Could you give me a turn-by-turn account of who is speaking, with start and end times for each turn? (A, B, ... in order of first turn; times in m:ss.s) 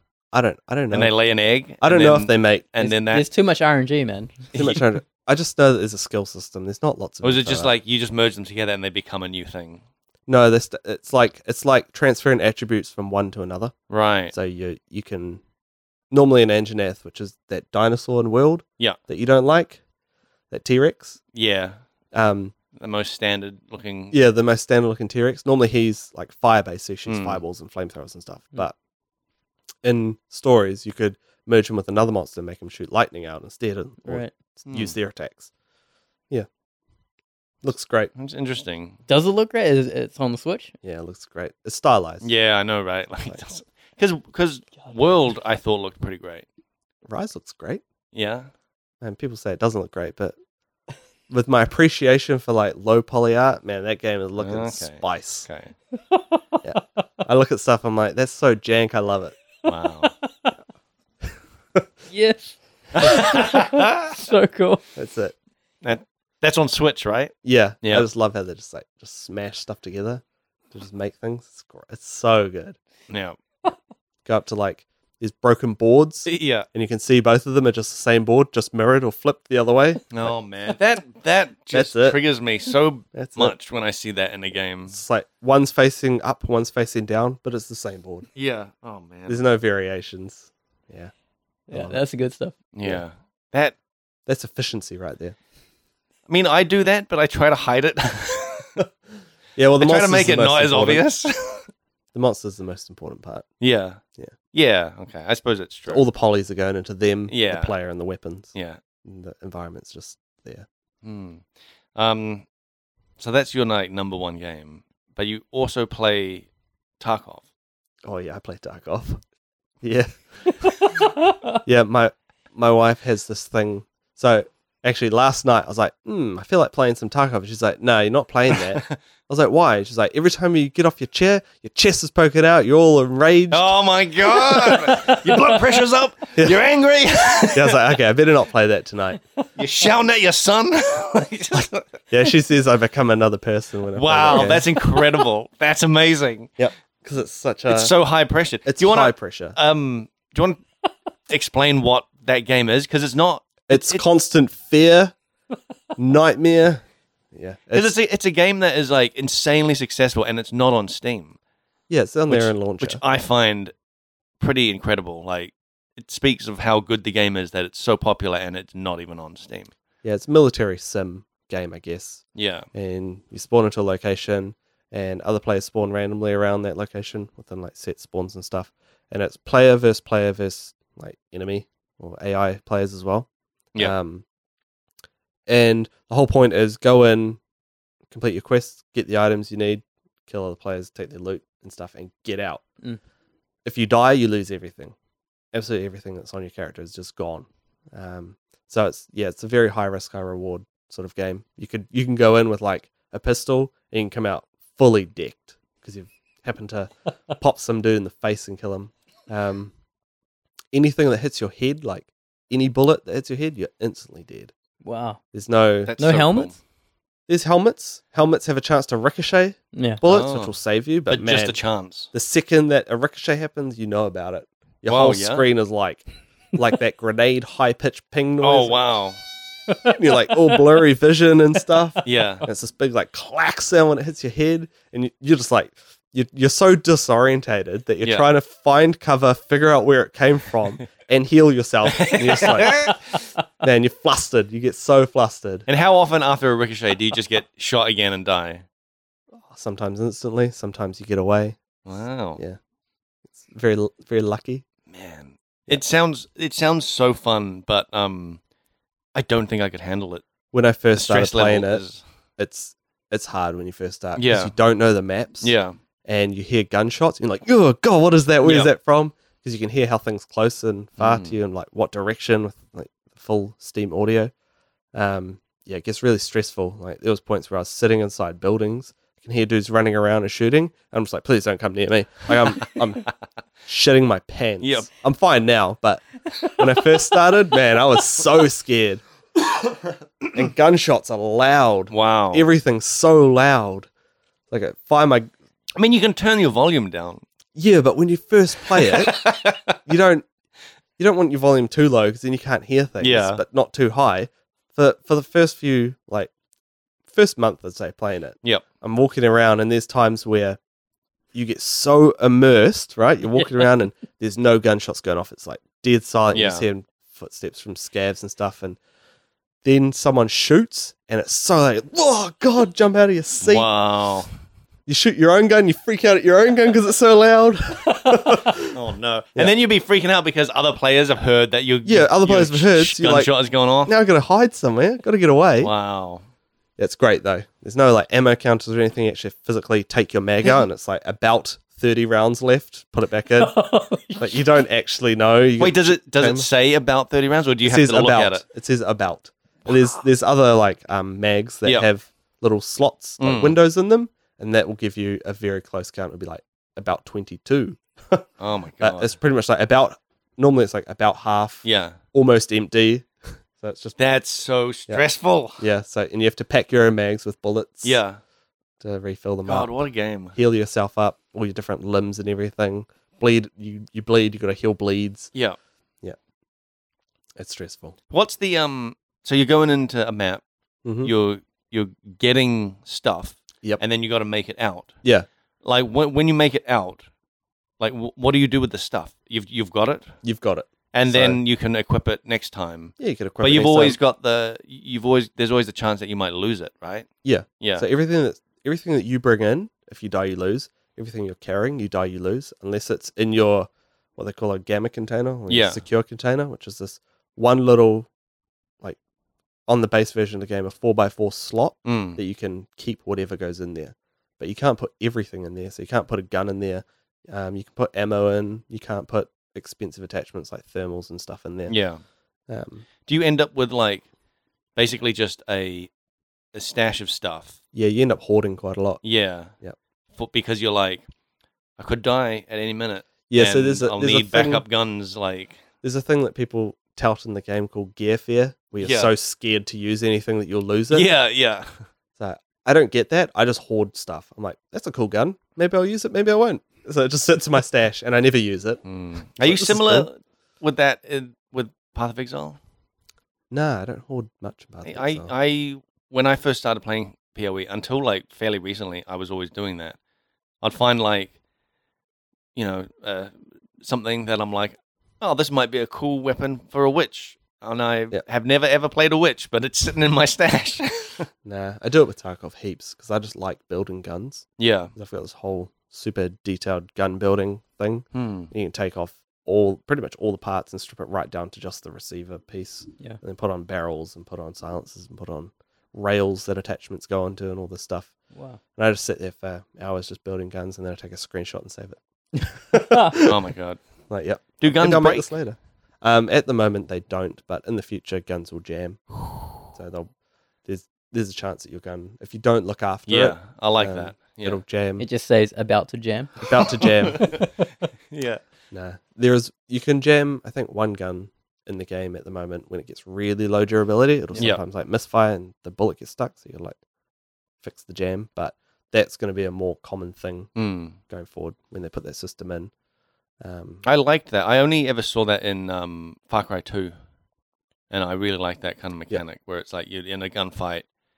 0:00.3-0:01.1 A
0:00.9-0:03.2 B
0:01.8-0:02.7 A
0:02.8-0:04.5 C
0:04.5-0:04.8 B
0:04.5-0:07.7 A
0:07.2-0:09.8 B
0:10.3-0:13.8 A
0:13.9-0:14.3 B
0:14.3-0:15.4 A
0:16.1-0:19.8 A
0:20.5-0:21.2 A
0:21.3-0:21.8 B
0:22.1-0:22.6 A
0:22.7-0:24.2 B
0:24.1-0:28.7 A
0:27.1-0:27.4 B
0:29.8-0:35.5 A
0:34.0-0:34.3 C
0:34.7-0:35.0 B
0:37.6-0:38.1 A
0:38.2-0:39.0 B
0:39.1-0:40.8 C
0:40.8-0:42.3 A
0:42.2-0:46.5 B
0:47.1-0:47.8 A
0:48.1-0:48.5 B
0:49.0-0:50.4 A
0:51.3-0:55.5 A
0:54.4-0:55.7 B
0:56.1-0:56.6 C
0:56.6-0:59.4 A
0:59.7-1:00.1 B
0:59.7-1:00.6 C
1:02.1-1:04.8 C
1:03.0-1:04.2 B
1:05.0-1:05.4 A
1:05.8-1:08.1 B
1:07.4-1:12.8 A
1:13.1-1:13.4 B
1:14.2-1:20.3 A
1:16.2-1:16.7 B
1:20.1-1:25.0 B
1:21.7-1:22.2 A
1:23.1-1:23.6 A
1:24.9-1:28.3 A
1:28.4-1:29.4 B
1:29.3-1:31.1 A
1:31.7-1:32.6 C
1:31.7-1:32.0 A
1:32.7-1:33.8 B
1:34.3-1:35.4 A
1:36.3-1:38.8 B
1:39.6-1:41.0 A
1:39.8-1:41.7 B
1:42.1-1:43.5 A
1:43.6-1:46.0 B
1:45.9-1:50.7 A
1:47.3-1:47.7 B
1:48.5-1:48.8 B
1:51.0-1:52.5 B
1:53.2-1:56.5 B
1:57.0-1:57.4 B
1:58.0-1:59.2 A
1:59.8-2:01.0 A
2:01.6-2:13.7 A
2:08.5-2:09.0 B
2:13.5-2:17.8 B
2:14.5-2:15.6 C
2:17.5-2:19.2 A
2:19.6-2:21.9 B
2:22.1-2:24.7 A
2:24.0-2:26.5 B
2:26.6-2:27.9 A
2:27.7-2:30.6 B
2:28.7-2:29.6 A
2:31.3-2:34.0 B
2:33.7-2:35.2 A
2:36.0-2:36.8 A
2:37.3-2:37.9 A
2:37.7-2:41.4 B
2:41.9-2:43.0 A
2:42.3-2:43.7 B
2:44.4-2:49.7 B
2:50.0-3:04.2 A
2:52.4-2:52.7 B
3:05.5-3:07.4 A
3:08.1-3:12.6 A
3:13.6-3:14.9 A
3:15.5-3:29.7 A
3:30.7-3:34.5 A
3:34.8-3:35.2 C
3:35.3-3:36.0 A
3:35.8-3:36.6 B
3:36.0-3:36.5 C
3:37.3-3:41.6 A
3:39.7-3:40.0 C
3:40.0-3:40.5 B
3:41.1-3:42.1 B
3:42.1-3:48.8 A
3:44.9-3:45.4 B
3:48.4-3:49.2 B
3:49.9-4:03.0 A
3:52.0-3:52.5 B
4:01.8-4:03.1 B
4:03.6-4:05.7 A
4:05.7-4:08.6 B
4:09.4-4:11.6 A
4:11.8-4:12.4 B
4:13.4-4:14.6 A
4:14.9-4:18.4 B
4:19.1-4:20.2 B
4:20.5-4:21.8 A
4:21.0-4:22.0 B
4:22.4-4:25.5 A
4:24.2-4:24.5 B
4:25.4-4:25.8 B
4:26.0-4:34.3 A
4:28.4-4:28.7 B
4:31.0-4:31.3 B
4:34.9-4:43.1 A
4:43.7-4:49.0 A
4:44.6-4:44.9 B
4:50.3-4:53.9 A
4:51.9-4:52.5 B
4:54.5-4:55.3 A
4:55.8-4:57.2 B
4:57.6-4:59.2 A
4:58.8-4:59.8 B
4:59.8-5:00.3 A
5:01.0-5:06.3 A
5:03.0-5:03.4 B
5:07.1-5:10.6 A
5:11.3-5:18.8 A
5:16.3-5:16.7 B
5:19.6-5:23.7 A
5:23.4-5:24.3 B
5:24.9-5:28.8 A
5:28.6-5:33.9 B
5:31.8-5:33.3 A
5:33.8-5:35.7 A
5:35.6-5:36.2 B
5:36.8-5:43.5 A
5:43.4-5:44.4 C
5:44.2-5:46.5 A
5:45.6-5:48.4 B
5:47.6-5:58.3 A
5:53.2-5:53.6 B
5:58.4-5:59.1 B
5:58.8-6:04.0 A
6:01.6-6:02.0 B
6:04.0-6:05.6 B
6:05.6-6:08.0 A
6:07.8-6:08.2 B
6:08.8-6:09.7 A
6:09.5-6:10.4 B
6:10.3-6:15.3 A
6:17.4-6:18.0 A
6:18.1-6:20.4 B
6:20.8-6:21.1 A
6:21.0-6:24.9 B
6:25.6-6:27.0 B
6:27.8-6:30.2 B
6:30.2-6:31.4 A
6:30.9-6:37.1 B
6:33.0-6:34.0 A
6:37.2-6:48.1 A
6:37.6-6:37.8 B
6:45.5-6:45.8 B
6:49.7-7:01.8 A
6:51.8-6:52.2 B
7:01.7-7:02.0 B
7:02.5-7:02.9 A
7:03.1-7:04.1 B
7:04.8-7:05.9 B
7:06.5-7:07.6 B
7:07.7-7:09.0 A
7:09.0-7:09.5 B
7:10.1-7:11.0 B
7:11.8-7:15.6 B
7:13.3-7:14.6 A
7:15.8-7:21.1 A
7:18.8-7:19.1 B
7:20.9-7:21.7 B
7:22.2-7:28.8 A
7:28.8-7:32.6 B
7:29.4-7:30.1 A
7:33.5-7:35.3 A
7:34.8-7:40.0 B
7:40.6-7:41.3 B
7:42.6-7:51.3 B
7:51.4-8:08.1 A
7:54.6-7:54.9 B
7:58.1-7:58.5 B
8:08.3-8:08.6 C
8:08.8-8:13.3 A
8:12.7-8:13.2 C
8:13.2-8:13.8 B
8:14.1-8:20.1 A
8:14.6-8:15.3 B
8:20.6-8:25.0 A
8:23.1-8:24.6 B
8:25.0-8:27.5 C
8:26.4-8:27.3 A
8:26.8-8:27.4 B
8:28.1-8:28.4 B
8:28.7-8:36.8 A
8:37.6-8:40.5 A
8:40.6-8:41.0 B
8:41.0-8:42.7 A
8:43.4-8:43.8 A
8:43.8-8:46.9 B
8:47.9-8:50.9 B